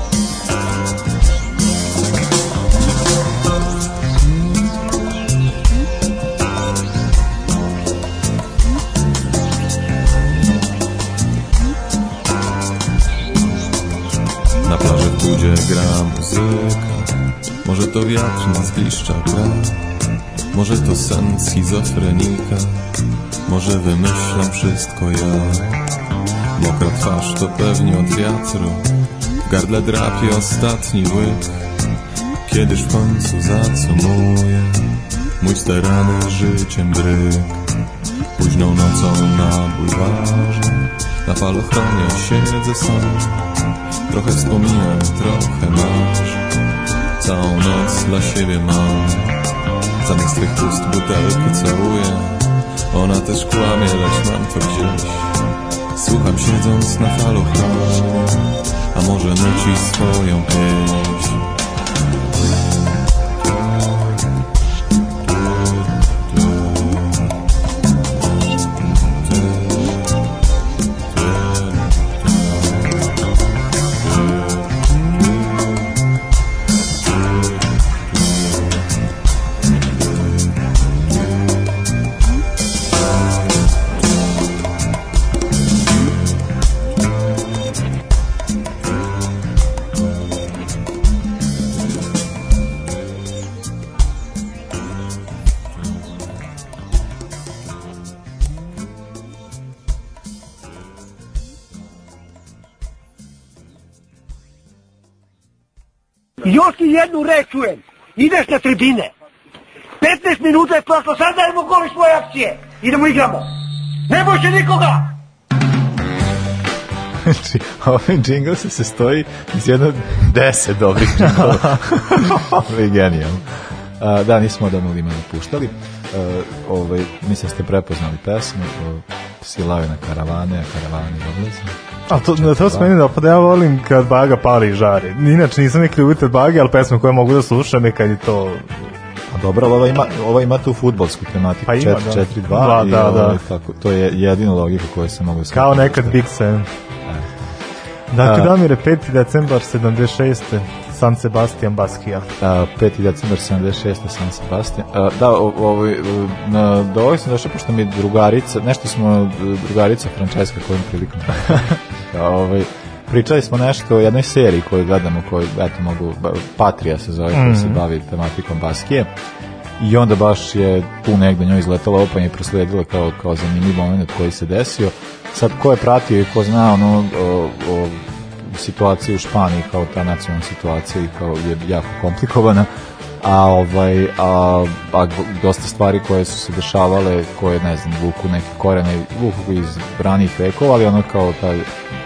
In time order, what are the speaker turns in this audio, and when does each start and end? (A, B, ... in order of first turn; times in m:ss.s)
0:14.6-0:17.1 A
0:17.6-0:19.8 A
0:20.5-0:22.8 A
0:23.4-0:25.8 A
0:26.6-0:28.8 A
0:29.4-0:31.4 A
0:32.4-0:34.8 A
0:35.4-0:37.6 A
0:38.4-0:43.5 A
0:44.1-0:46.4 A
0:47.2-0:49.4 A
0:50.0-0:55.4 A
0:55.9-1:01.4 A
1:03.4-1:04.2 A
1:05.3-1:07.3 A
1:08.8-1:10.0 A
1:11.1-1:13.1 A
1:14.0-1:15.9 A
1:46.4-1:49.1 B
1:50.0-1:53.5 B
1:54.1-1:55.0 B
1:57.2-2:12.9 C
2:12.1-2:18.9 D
2:19.3-2:26.2 C
2:21.7-2:23.4 D
2:25.5-2:26.7 D
2:27.0-2:27.6 C
2:28.1-2:32.3 D
2:28.2-2:28.5 C
2:32.4-2:49.1 C
2:41.5-2:41.7 D
2:47.3-2:47.8 D
2:49.8-3:11.7 C